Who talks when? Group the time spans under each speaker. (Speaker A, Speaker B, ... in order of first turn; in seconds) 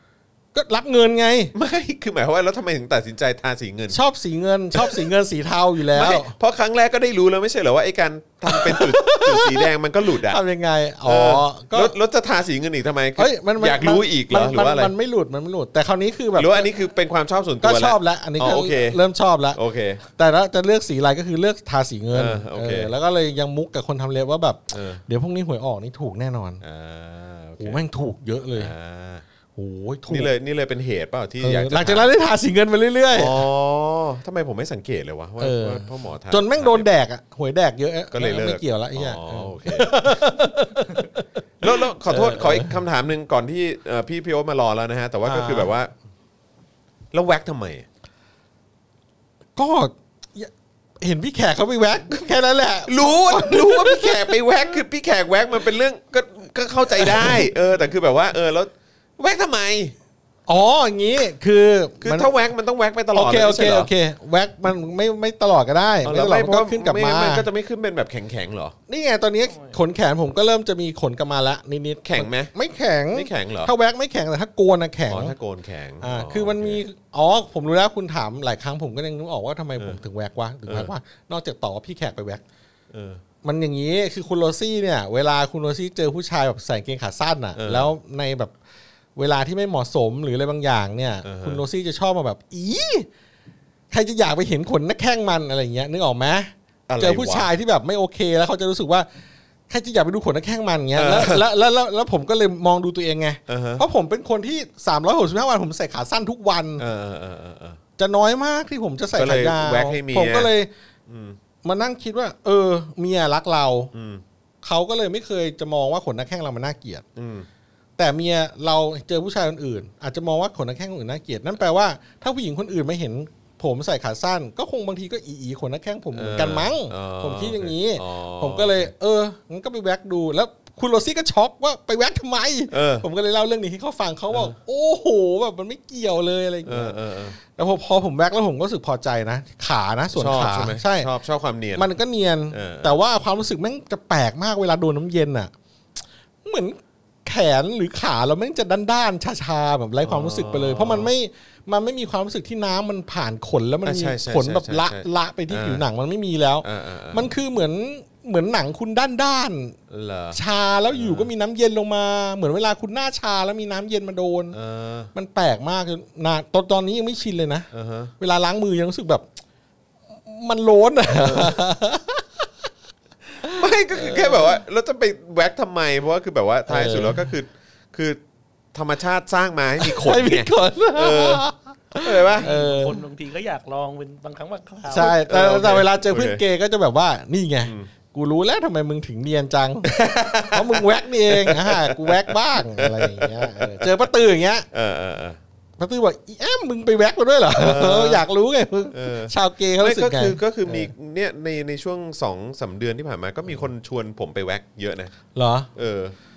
Speaker A: 0.5-1.5, 3.9-6.3, 8.5-11.9, 13.2-16.7, 17.6-19.6, 20.1-26.6, 27.6-28.7, 29.5-30.3, 31.4-33.5, 35.4-42.8, 45.2-45.7, 49.5-54.4, 57.0-57.4, 60.5-62.3, 63.1-67.5, 68.9-75.3, 76.0-82.4, 83.4-88.5, 89.2-93.1, 93.9-99.1, 99.7-106.8, 108.0-110.7, 111.6-113.9, 114.6-117.0, 118.0-141.1, 141.7-145.5, 146.4-159.8, 160.3-164.6, 165.1-169.2, 170.2-172.5, 173.4-174.6, 176.7-177.3, 179.8-183.0, 184.9-194.7, 195.8-200.9, 205.3-205.7
Speaker B: 1.5-4.0, 4.7-5.1, 5.9-10.4, 11.0-14.9, 16.4-19.0, 19.5-20.0, 22.1-22.9, 24.7-25.0, 26.6-27.8, 28.5-29.2, 30.1-32.1, 33.1-36.9, 38.1-40.2, 41.6-45.9, 47.1-47.9, 52.9-59.9, 62.0-63.9, 66.0-68.8, 72.0-72.5, 73.1-73.7, 75.1-76.8, 80.7-80.9, 82.9-83.2, 87.5-87.9, 91.2-91.6, 96.9-97.5, 100.9-101.4, 103.5-103.8, 106.8-107.8, 109.1-110.5, 111.1-111.4, 113.9-114.2, 117.2-117.5, 126.1-128.9, 132.7-133.0, 136.6-137.4, 140.1-141.9, 142.5-143.0, 150.0-151.1, 153.8-155.8, 156.6-157.3, 159.9-160.4, 160.9-161.3, 164.5-165.1, 167.7-168.1, 171.1-171.6, 173.5-178.2, 178.7-181.4, 181.9-182.5, 184.9-186.4, 187.6-187.9, 189.8-194.1, 194.7-195.4, 197.5-198.2, 198.9-205.2, 205.7-206.2
Speaker C: 69.5-69.8, 182.4-185.1